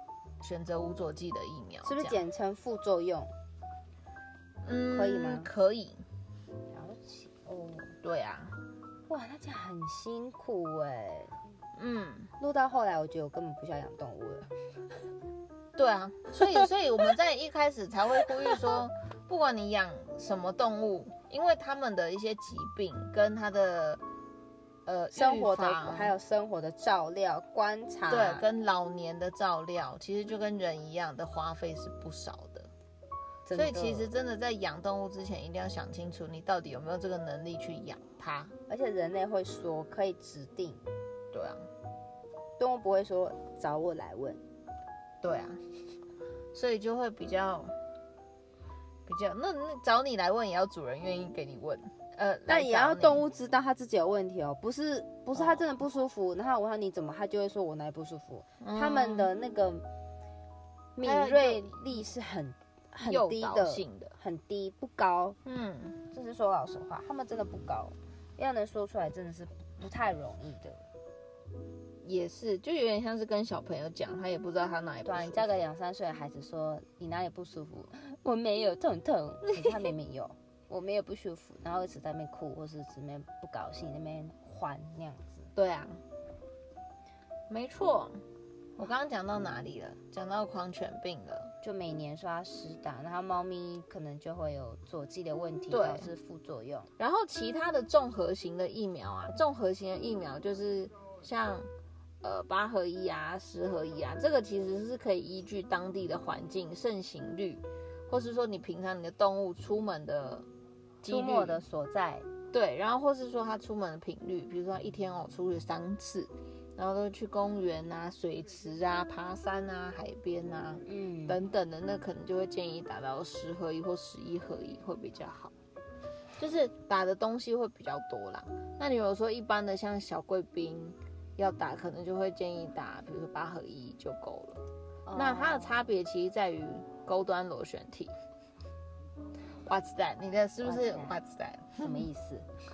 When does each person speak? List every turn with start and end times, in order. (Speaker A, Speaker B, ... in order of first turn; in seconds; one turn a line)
Speaker A: 0.4-2.2
Speaker B: 1.8-3.3
Speaker A: 4.6-6.0
Speaker B: 4.9-5.5
Speaker B: 6.7-7.9
Speaker A: 8.0-8.5
Speaker B: 9.1-11.3
Speaker A: 11.8-12.3
Speaker B: 12.4-14.5
Speaker A: 15.8-24.0
Speaker A: 24.9-26.1
Speaker B: 25.1-28.4
Speaker A: 28.1-32.7
Speaker B: 33.5-34.1
Speaker A: 33.5-38.5
Speaker B: 38.7-40.8
Speaker A: 41.3-41.6
Speaker B: 42.6-44.4
Speaker A: 45.2-45.6
Speaker A: 46.5-47.7
Speaker A: 49.0-53.2
Speaker B: 52.5-59.8
Speaker A: 55.3-55.7
Speaker A: 58.6-59.3
Speaker B: 61.0-65.4
Speaker A: 61.0-61.8
Speaker A: 63.0-64.1
Speaker A: 65.4-66.0
Speaker B: 66.1-70.8
Speaker A: 72.0-75.5
Speaker B: 75.0-85.5
Speaker A: 79.5-79.9
Speaker A: 85.5-86.0
Speaker A: 87.5-88.2
Speaker A: 88.8-91.5
Speaker B: 91.6-96.9
Speaker A: 95.7-96.1
Speaker A: 97.0-101.7
Speaker A: 102.2-110.5
Speaker A: 111.0-111.6
Speaker B: 111.0-112.3
Speaker A: 112.5-125.5
Speaker B: 120.8-121.4
Speaker A: 126.4-134.6
Speaker B: 135.1-135.8
Speaker A: 135.1-138.1
Speaker A: 139.6-142.1
Speaker B: 140.6-141.2
Speaker B: 141.8-142.5